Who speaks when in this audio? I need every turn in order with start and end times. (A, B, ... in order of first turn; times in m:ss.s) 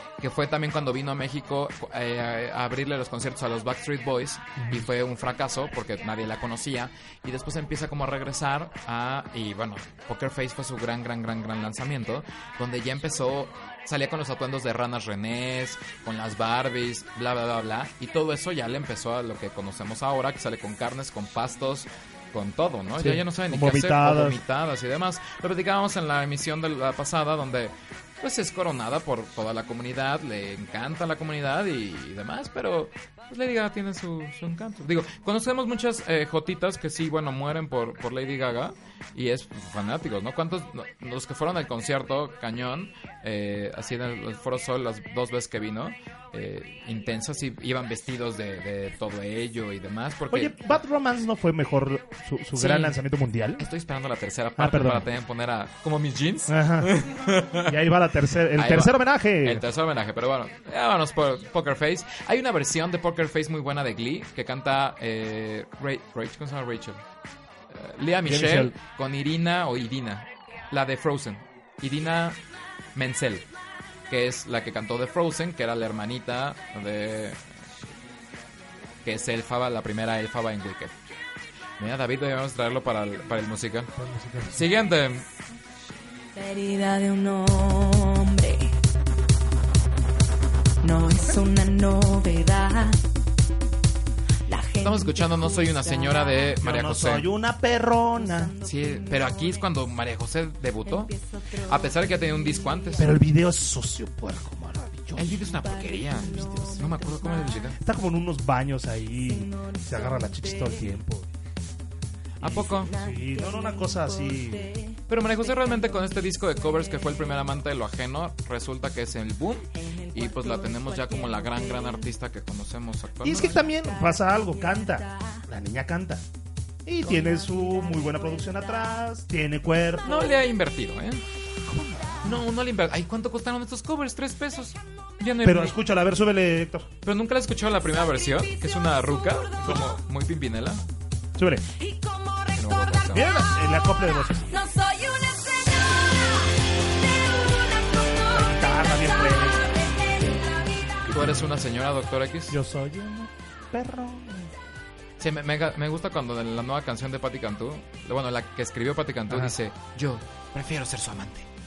0:00.2-0:50.8 A
0:04.6-0:04.8 B
0:23.0-0:24.4 B
0:50.3-0:53.6 B
0:52.5-0:53.0 A
0:53.6-0:57.8 A
0:54.6-0:55.0 B
0:56.5-0:57.0 B
0:57.6-0:59.6 B
0:58.5-1:07.0 A
1:07.7-1:12.4 A
1:08.2-1:08.7 B
1:12.9-1:13.4 A
1:14.1-1:17.4 A
1:19.0-1:20.9 A
1:21.8-1:23.9 A
1:24.0-1:24.6 B
1:24.4-1:25.2 A
1:26.3-1:28.7 C
1:30.8-1:33.0 C
1:34.5-1:36.6 C
1:34.8-1:37.3 A
1:36.6-1:38.5 B
1:38.2-1:39.7 C
1:38.6-1:41.1 A
1:40.9-1:43.1 C
1:41.6-1:43.2 A
1:43.0-1:45.4 B
1:45.2-1:47.8 A
1:45.4-1:47.7 C
1:47.8-1:51.3 B
1:49.3-1:51.0 C
1:52.4-1:52.9 A
1:52.5-1:57.5 C
1:52.9-1:54.7 B
1:55.1-2:03.6 A
1:59.7-2:02.1 C
2:03.2-2:06.2 B
2:03.6-2:05.4 C
2:06.9-2:10.2 B
2:07.0-2:08.9 C
2:10.0-2:11.2 A
2:11.7-2:12.4 B
2:12.2-2:15.8 A
2:15.4-2:16.9 B
2:17.0-2:20.8 A
2:19.1-2:19.7 C
2:21.4-2:21.7 B
2:21.8-2:31.0 C
2:22.5-2:23.3 A
2:23.1-2:24.6 B
2:28.3-2:29.6 B
2:31.1-2:32.6 A
2:32.5-2:34.5 B
2:35.2-2:41.5 A